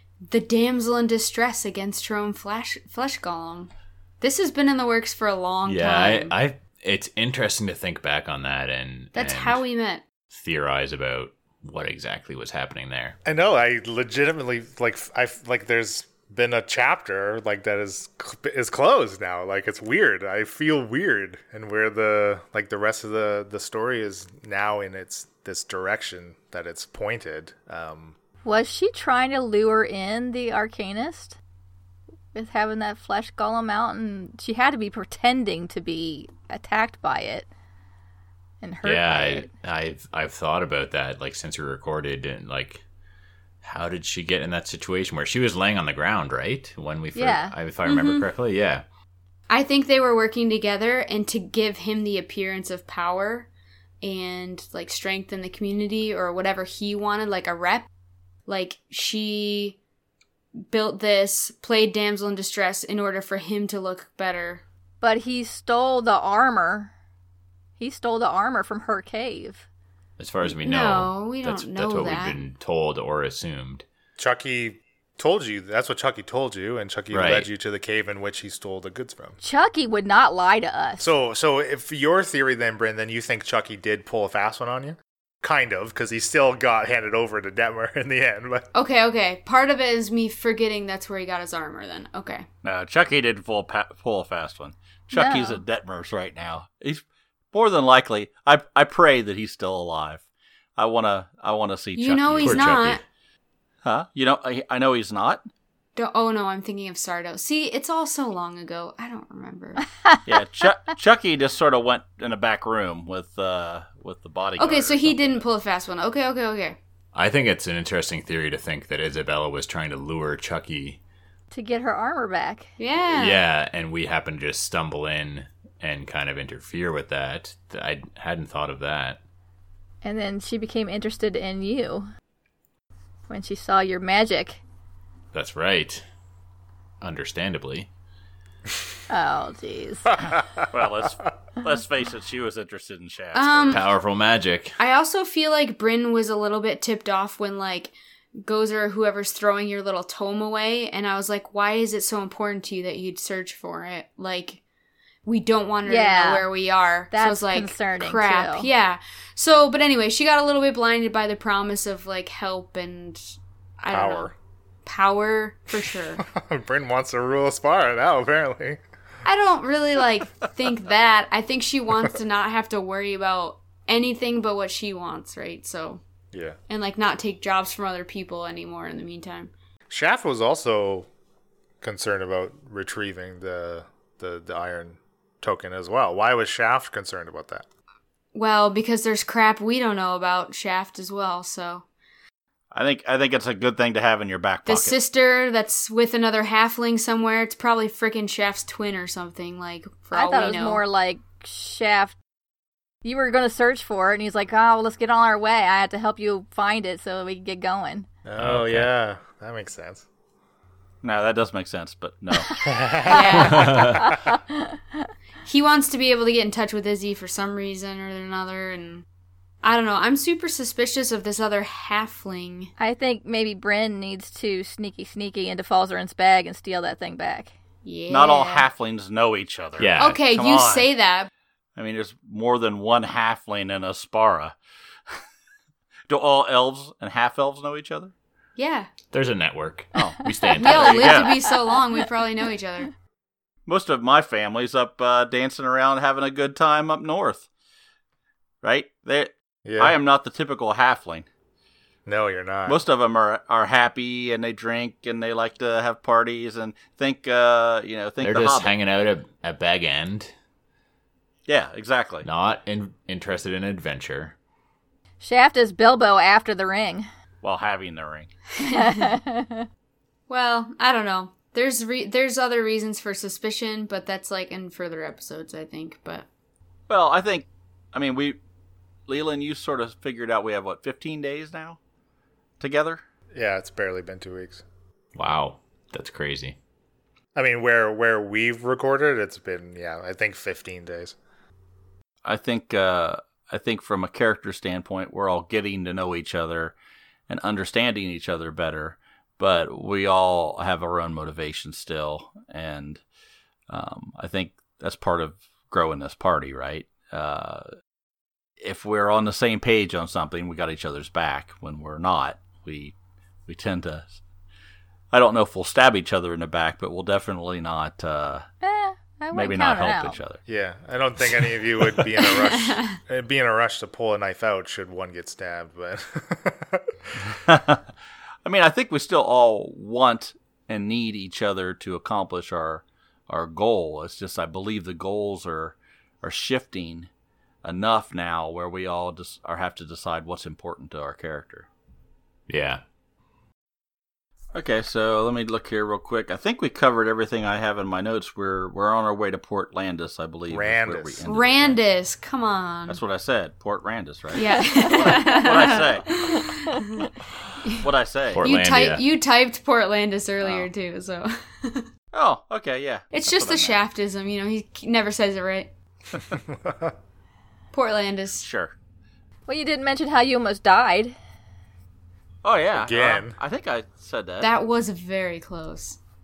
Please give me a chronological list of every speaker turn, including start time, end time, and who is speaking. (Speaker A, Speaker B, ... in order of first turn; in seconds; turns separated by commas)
Speaker A: 0.3-6.3, Speaker B: 5.7-9.6, Speaker A: 9.2-10.0, Speaker B: 10.3-13.2, Speaker C: 13.2-28.2, Speaker D: 28.4-31.4, Speaker D: 32.3-37.5, Speaker D: 38.6-39.5, Speaker B: 38.8-42.8, Speaker B: 43.6-48.8, Speaker D: 47.1-47.5, Speaker A: 47.9-48.3, Speaker A: 49.5-53.5, Speaker A: 54.0-57.9, Speaker A: 58.5-59.8, Speaker A: 60.7-64.6, Speaker D: 65.0-66.9, Speaker D: 67.8-69.7, Speaker B: 70.2-73.8, Speaker A: 70.5-72.4, Speaker C: 74.2-79.4, Speaker B: 77.1-77.5, Speaker D: 79.4-81.1, Speaker C: 81.0-88.7, Speaker A: 88.7-92.5, Speaker E: 92.6-100.2, Speaker D: 95.1-95.6, Speaker E: 100.8-102.9, Speaker A: 102.0-103.0, Speaker B: 102.4-103.0, Speaker E: 103.8-105.5, Speaker A: 106.0-109.8, Speaker E: 110.3-115.4, Speaker A: 114.6-116.8, Speaker B: 117.1-121.0, Speaker D: 121.5-122.7, Speaker A: 122.8-123.4, Speaker B: 123.1-129.2, Speaker D: 130.0-132.1, Speaker D: 133.3-134.6, Speaker B: 135.3-136.1, Speaker B: 137.0-137.9, Speaker D: 139.1-140.2, Speaker E: 140.7-143.8, Speaker A: 143.3-143.8, Speaker B: 143.7-144.8, Speaker A: 144.8-154.6, Speaker A: 155.2-164.3, Speaker D: 155.8-156.5, Speaker D: 157.1-158.7, Speaker C: 163.9-164.3, Speaker A: 164.8-166.2, Speaker C: 166.2-168.8, Speaker A: 169.2-176.0, Speaker C: 176.3-176.6, Speaker A: 176.7-179.5, Speaker C: 179.9-181.1, Speaker C: 181.8-187.7, Speaker A: 188.3-191.8, Speaker E: 192.7-194.9, Speaker A: 194.7-200.8, Speaker D: 200.1-202.2, Speaker D: 203.0-208.1, Speaker C: 208.2-210.1, Speaker B: 208.4-208.9, Speaker E: 211.0-212.6, Speaker C: 212.6-213.7, Speaker A: 213.1-214.0, Speaker D: 213.2-214.8, Speaker B: 213.4-214.1, Speaker A: 215.4-219.1, Speaker A: 219.6-222.7, Speaker D: 222.8-227.5, Speaker A: 227.8-228.7, Speaker E: 228.1-230.9, Speaker B: 229.8-230.2, Speaker A: 230.0-231.3, Speaker E: 231.8-234.6, Speaker E: 236.1-238.1, Speaker A: 238.6-238.9, Speaker B: 239.1-241.3, Speaker E: 239.9-241.4, Speaker D: 240.2-240.6, Speaker A: 240.6-242.9, Speaker E: 243.7-247.5, Speaker E: 248.6-251.3, Speaker C: 249.7-249.9, Speaker C: 252.1-252.8, Speaker E: 252.7-258.7, Speaker B: 258.2-260.3, Speaker E: 261.5-262.3, Speaker B: 262.2-264.4, Speaker D: 265.2-267.1, Speaker E: 267.4-268.3, Speaker D: 268.6-269.7, Speaker A: 268.7-269.1, Speaker A: 270.3-276.3, Speaker E: 276.9-278.4, Speaker E: 279.1-281.8, Speaker E: 282.6-283.0, Speaker C: 283.3-284.6, Speaker B: 285.1-286.6, Speaker C: 287.4-291.2, Speaker E: 292.2-296.7, Speaker E: 297.3-303.0, Speaker E: 303.7-307.7, Speaker E: 308.6-313.0, Speaker E: 313.5-314.2, Speaker E: 315.1-318.5, Speaker D: 318.6-320.2, Speaker E: 319.3-320.4, Speaker C: 320.5-327.3, Speaker A: 322.4-323.0, Speaker E: 327.5-327.8, Speaker E: 328.4-337.1, Speaker E: 337.6-341.7, Speaker B: 342.5-342.8, Speaker E: 344.5-351.8, Speaker C: 350.5-351.2, Speaker A: 351.2-353.0, Speaker E: 352.9-356.2, Speaker A: 354.4-357.1, Speaker D: 354.8-355.4, Speaker D: 356.2-356.9, Speaker E: 357.8-358.4, Speaker B: 358.3-359.0, Speaker A: 358.4-361.9, Speaker E: 360.4-360.7, Speaker E: 362.1-363.8, Speaker A: 363.1-365.7, Speaker C: 366.3-366.9, Speaker A: 367.7-368.5, Speaker E: 368.4-368.7, Speaker D: 369.5-371.1, Speaker E: 372.4-374.5, Speaker C: 372.8-373.4, Speaker A: 374.4-376.0